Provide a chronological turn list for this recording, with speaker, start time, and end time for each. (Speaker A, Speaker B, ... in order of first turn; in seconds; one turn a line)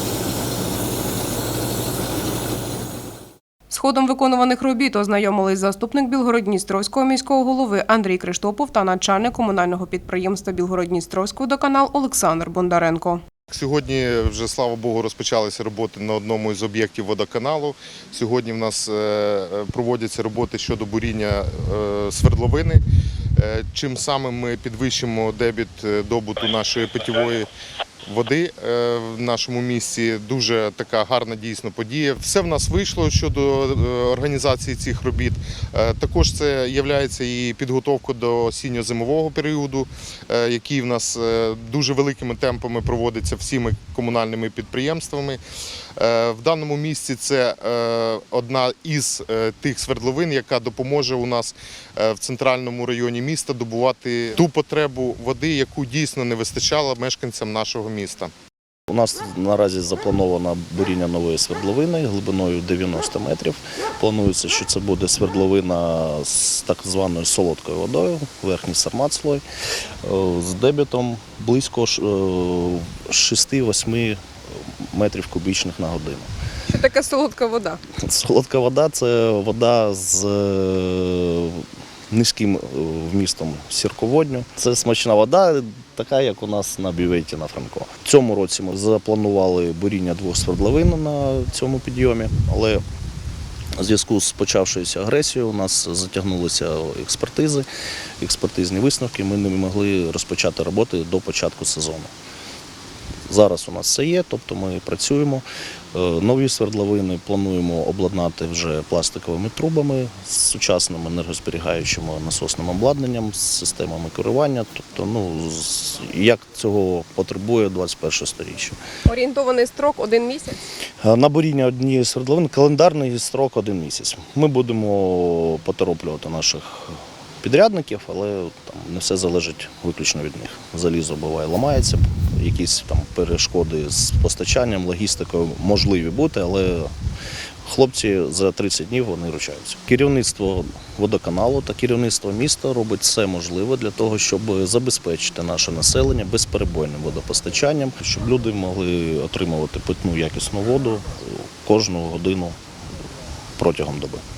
Speaker A: 3.7-13.2
Speaker B: 13.5-22.8
Speaker B: 23.4-27.5
Speaker B: 28.1-45.4
Speaker B: 46.0-58.3
Speaker C: 58.9-69.4
Speaker C: 70.0-74.2
Speaker C: 74.8-76.3
Speaker A: 76.7-77.8
Speaker C: 77.9-92.8
Speaker C: 93.8-97.7
Speaker C: 98.2-102.1
Speaker C: 103.3-118.8
Speaker A: 119.0-120.6
Speaker C: 121.0-136.9
Speaker C: 137.6-152.6
Speaker C: 153.6-154.2